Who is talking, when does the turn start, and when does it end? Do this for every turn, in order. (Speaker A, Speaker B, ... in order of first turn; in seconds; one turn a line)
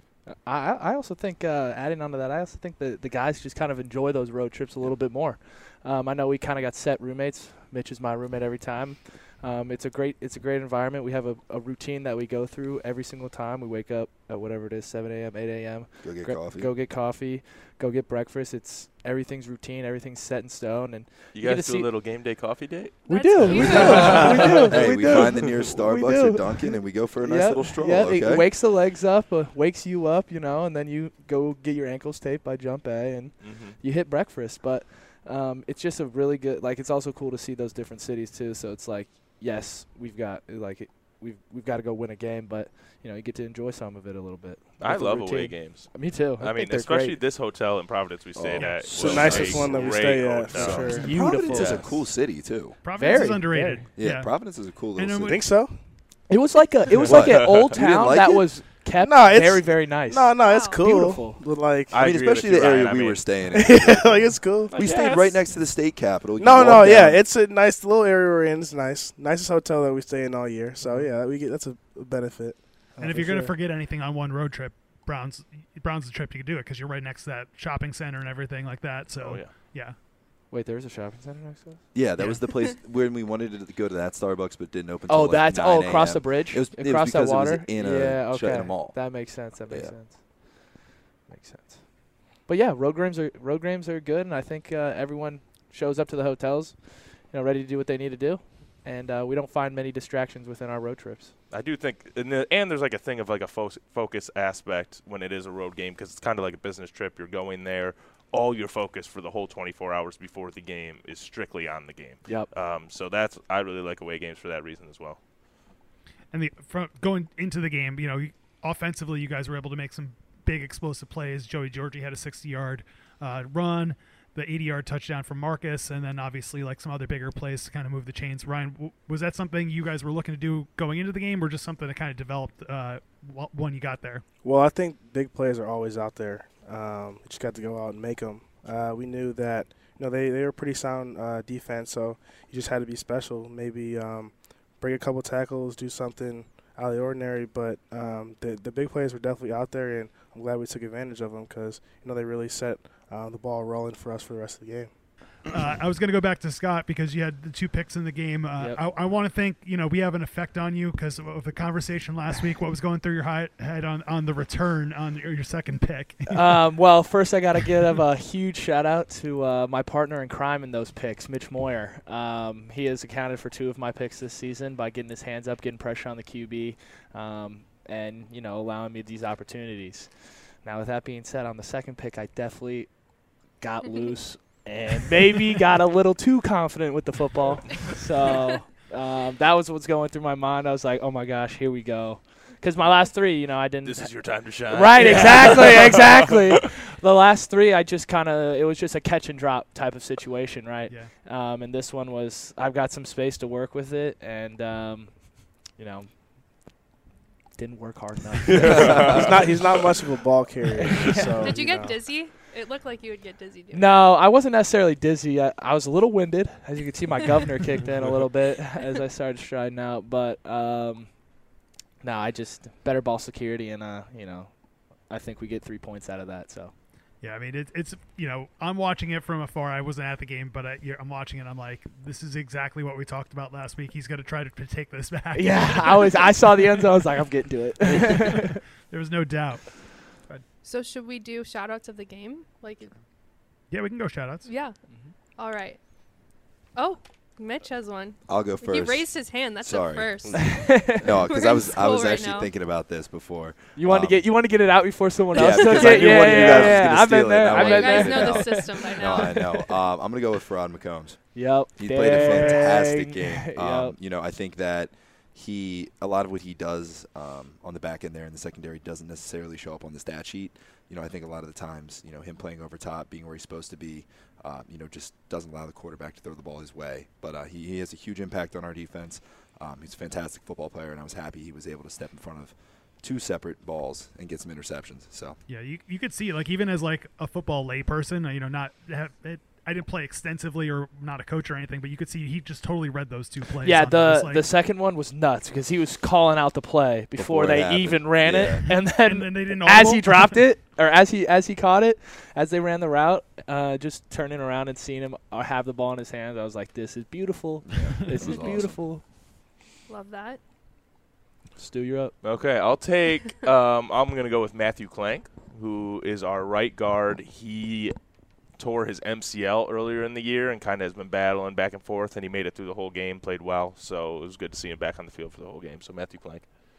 Speaker A: 0.2-21.9
Speaker B: 16.0-16.7
Speaker C: 21.3-25.2
Speaker D: 23.1-24.6
Speaker A: 23.1-47.2
Speaker B: 23.5-28.5
Speaker C: 33.4-33.8
Speaker C: 44.8-50.9
Speaker B: 48.4-49.9
Speaker E: 48.6-48.9
Speaker F: 48.9-51.1
Speaker B: 50.5-52.8
Speaker A: 50.9-52.0
Speaker C: 51.5-51.8
Speaker E: 52.8-55.4
Speaker A: 52.9-53.8
Speaker B: 54.0-55.4
Speaker F: 55.2-55.8
Speaker A: 56.3-61.4
Speaker B: 57.0-58.5
Speaker C: 57.2-57.5
Speaker F: 59.0-62.0
Speaker D: 60.4-60.8
Speaker C: 61.9-63.3
Speaker B: 61.9-67.2
Speaker F: 63.5-64.8
Speaker A: 64.7-65.4
Speaker F: 66.4-73.5
Speaker A: 70.8-71.1
Speaker E: 73.0-80.0
Speaker C: 79.2-79.5
Speaker A: 80.5-81.8
Speaker B: 81.9-90.0
Speaker A: 85.1-101.3
Speaker C: 101.5-115.2
Speaker E: 116.3-134.2
Speaker F: 134.4-154.9
Speaker E: 155.5-166.7
Speaker A: 166.3-183.1
Speaker A: 183.6-206.7
Speaker C: 193.8-196.1
Speaker A: 207.6-209.3
Speaker C: 208.6-209.3
Speaker F: 208.7-212.0
Speaker B: 208.7-209.2
Speaker A: 210.8-211.5
Speaker D: 211.4-214.1
Speaker A: 213.7-221.2
Speaker A: 222.0-226.7
Speaker E: 227.2-236.9
Speaker A: 235.3-238.6
Speaker E: 237.8-240.4
Speaker D: 240.6-242.9
Speaker E: 243.7-244.5
Speaker D: 244.4-244.8
Speaker D: 245.4-245.8
Speaker D: 246.8-252.5
Speaker B: 248.3-254.3
Speaker A: 250.5-251.0
Speaker A: 253.8-259.6
Speaker B: 255.3-285.4
Speaker D: 256.3-256.8
Speaker D: 257.4-259.6
Speaker A: 261.3-263.9
Speaker E: 285.5-294.5
Speaker A: 293.6-309.0
Speaker B: 297.1-298.8
Speaker E: 298.7-300.5
Speaker B: 307.7-308.8
Speaker D: 309.9-310.4
Speaker A: 311.6-312.1
Speaker C: 312.2-317.9
Speaker C: 318.6-326.5